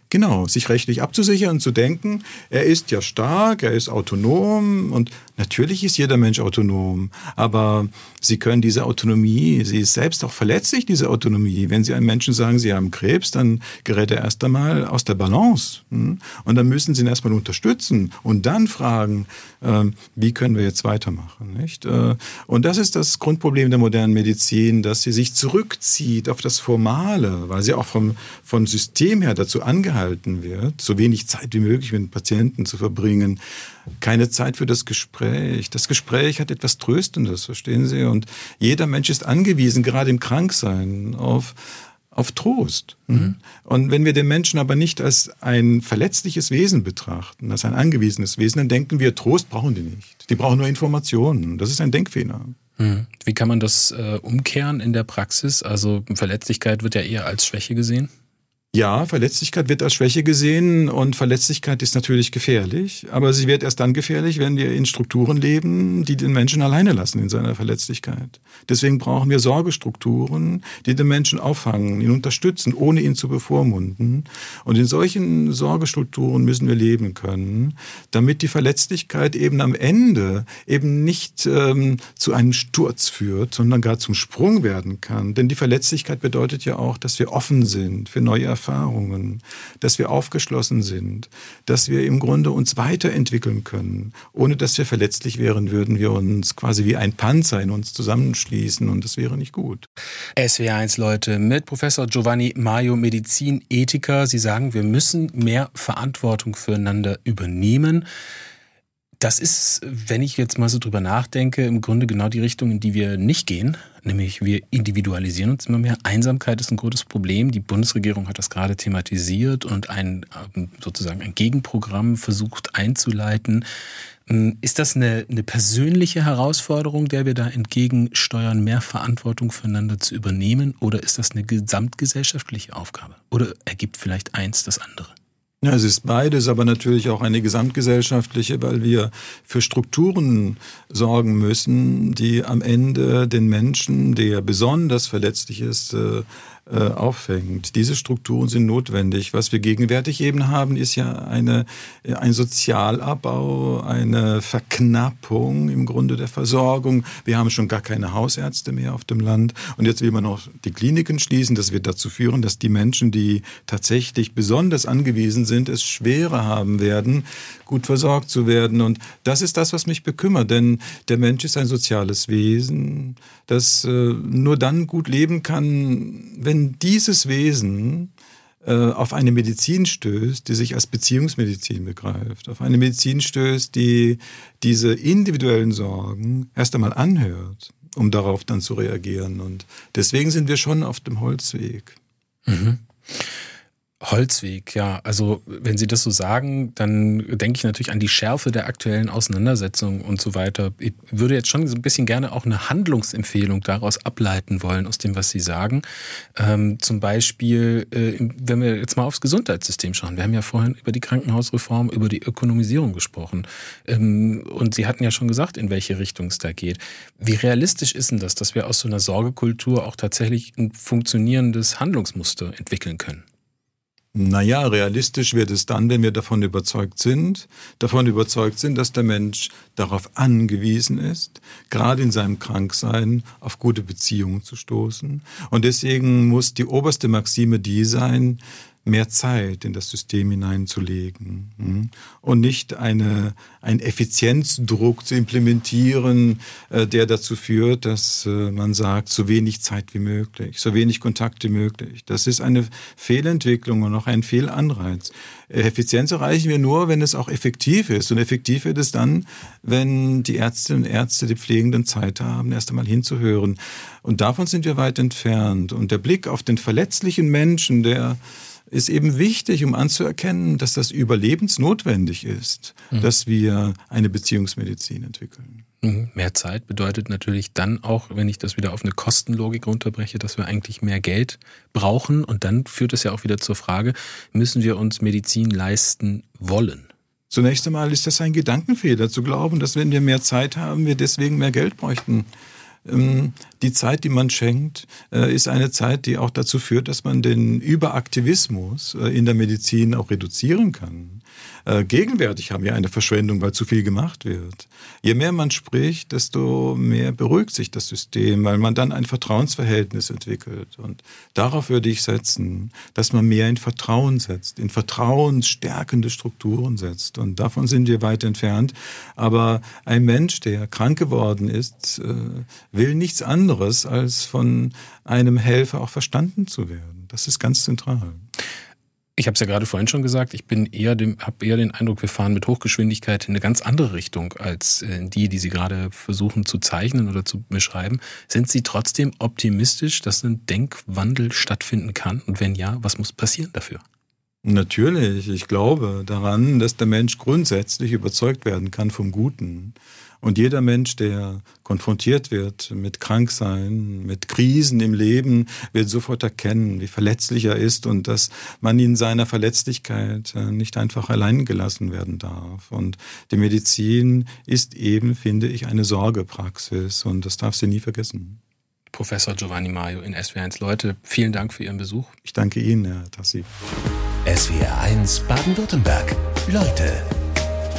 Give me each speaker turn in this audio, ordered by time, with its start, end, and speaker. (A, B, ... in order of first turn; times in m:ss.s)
0:00.1-0:33.4 A
0:34.0-0:52.5 A
0:52.8-0:58.1 B
0:58.7-1:39.8 A
1:40.4-1:48.0 B
1:49.2-2:03.6 B
2:04.3-2:15.1 B
2:15.6-2:58.1 A
2:58.6-3:12.0 A
3:12.4-3:13.3 B
3:14.0-3:25.8 B
3:26.4-3:43.2 B
3:44.1-4:35.6 A
4:35.8-4:46.9 B
4:47.3-4:52.3 A
4:52.8-5:28.2 A
5:29.2-5:43.8 B
5:44.4-6:08.4 A
6:08.9-6:12.1 B
6:12.2-6:13.5 A
6:14.2-6:17.1 C